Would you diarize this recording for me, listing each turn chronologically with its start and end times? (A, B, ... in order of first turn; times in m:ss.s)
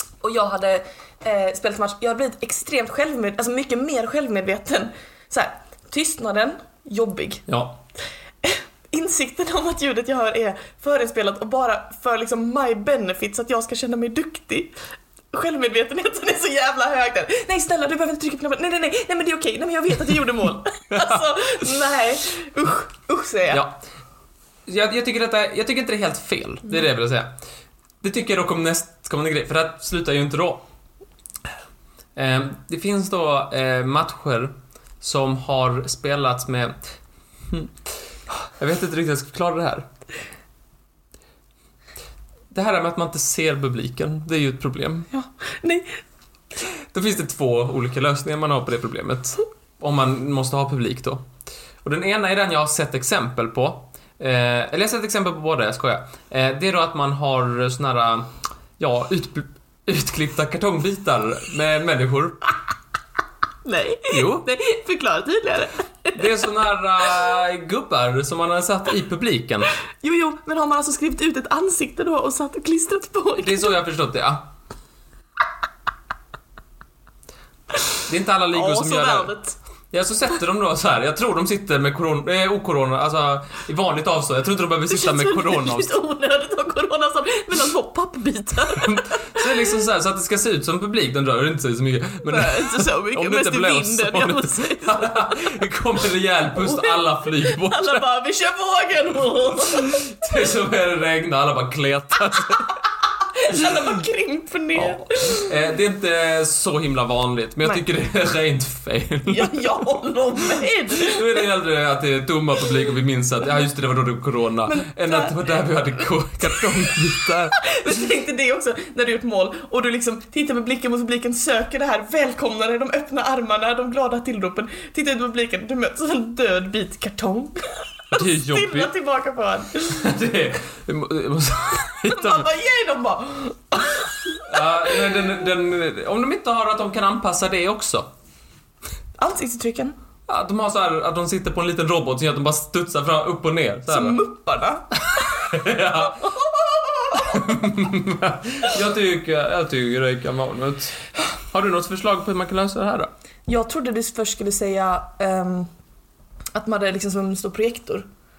0:00.2-0:07.4 A
0:07.5-0:07.8 B
0:08.4-0:14.7 A
0:15.3-0:23.6 A
0:23.5-0:23.8 B
0:24.7-0:27.3 B
0:28.0-0:30.6 B
0:32.1-0:36.8 B
0:37.5-0:37.8 B
0:38.4-0:39.9 B
0:42.5-0:45.1 B
0:45.1-0:46.0 A
0:46.8-0:51.2 B
0:51.8-1:02.5 B
1:03.6-1:06.4 A
1:04.1-1:04.4 B
1:06.2-1:09.7 B
1:10.0-1:13.7 A
1:13.4-1:14.4 B
1:18.0-1:19.3 B
1:18.5-1:19.6 A
1:19.9-1:25.9 B
1:24.9-1:29.6 A
1:28.7-1:38.0 B
1:32.3-1:35.5 A
1:36.6-1:40.1 A
1:39.7-1:42.8 B
1:43.3-1:45.5 A
1:43.5-1:43.8 B
1:44.7-1:49.8 B
1:49.3-1:51.4 A
1:50.9-1:57.6 B
1:54.7-1:55.3 A
1:57.6-2:10.1 A
2:08.1-2:08.9 B
2:09.8-2:12.5 B
2:12.0-2:14.6 A
2:14.4-2:18.1 B
2:19.2-2:20.0 A
2:20.3-2:24.2 B
2:23.9-2:25.2 A
2:25.2-2:26.3 B
2:26.2-2:27.4 A
2:27.1-2:33.1 B
2:33.5-2:35.7 A
2:36.5-2:38.1 A